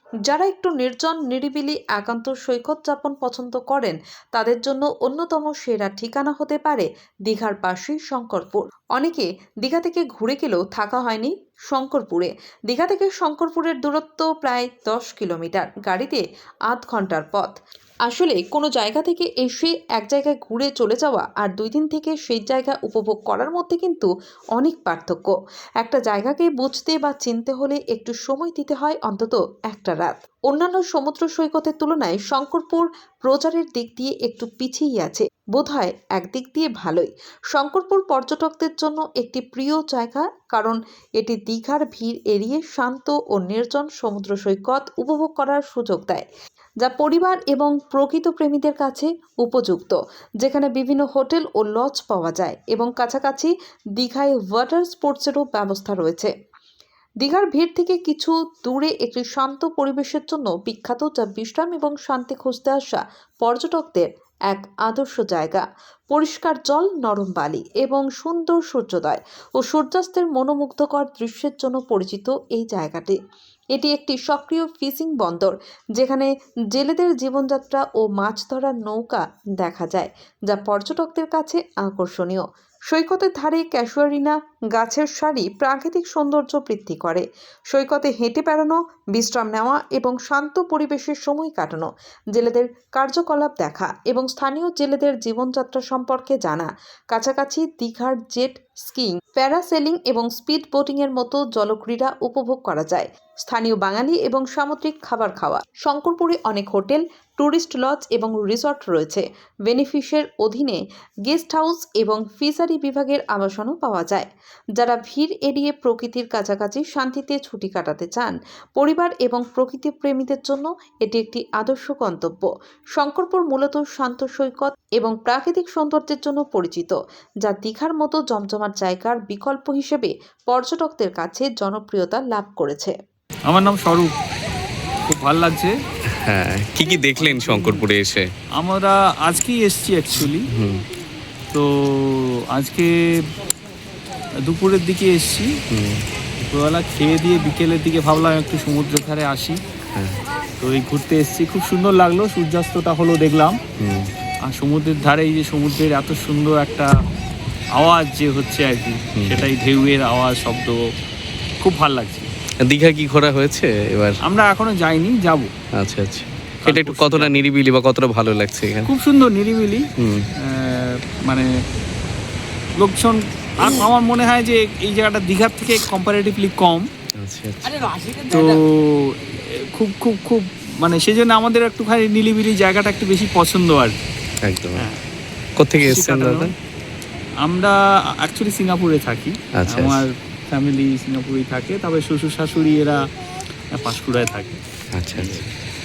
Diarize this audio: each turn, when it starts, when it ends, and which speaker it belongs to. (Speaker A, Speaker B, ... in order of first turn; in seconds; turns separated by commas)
Speaker A: 0.3-17.5, Speaker A: 18.1-46.2, Speaker A: 46.8-56.3, Speaker A: 57.2-73.2, Speaker A: 73.7-114.3, Speaker A: 114.8-132.9, Speaker B: 133.5-134.1, Speaker B: 135.1-135.7, Speaker C: 136.2-138.3, Speaker B: 137.2-137.8, Speaker B: 138.6-140.5, Speaker C: 140.5-140.8, Speaker B: 141.5-142.9, Speaker B: 144.4-145.5, Speaker C: 145.7-146.0, Speaker B: 146.4-149.6, Speaker C: 149.9-150.2, Speaker B: 150.6-153.6, Speaker C: 153.8-154.1, Speaker B: 154.5-156.9, Speaker B: 157.8-160.8, Speaker C: 159.2-159.5, Speaker B: 161.6-162.3, Speaker C: 162.6-164.2, Speaker B: 164.2-165.5, Speaker C: 165.8-168.9, Speaker B: 166.6-167.4, Speaker B: 168.8-169.9, Speaker C: 170.0-170.2, Speaker B: 170.4-171.5, Speaker B: 172.8-176.9, Speaker C: 177.2-177.9, Speaker B: 178.3-183.9, Speaker C: 184.4-184.9, Speaker C: 185.6-186.5, Speaker B: 185.8-186.5, Speaker B: 187.4-193.0, Speaker C: 189.6-190.0, Speaker B: 193.7-194.6, Speaker C: 194.9-195.4, Speaker B: 195.1-195.4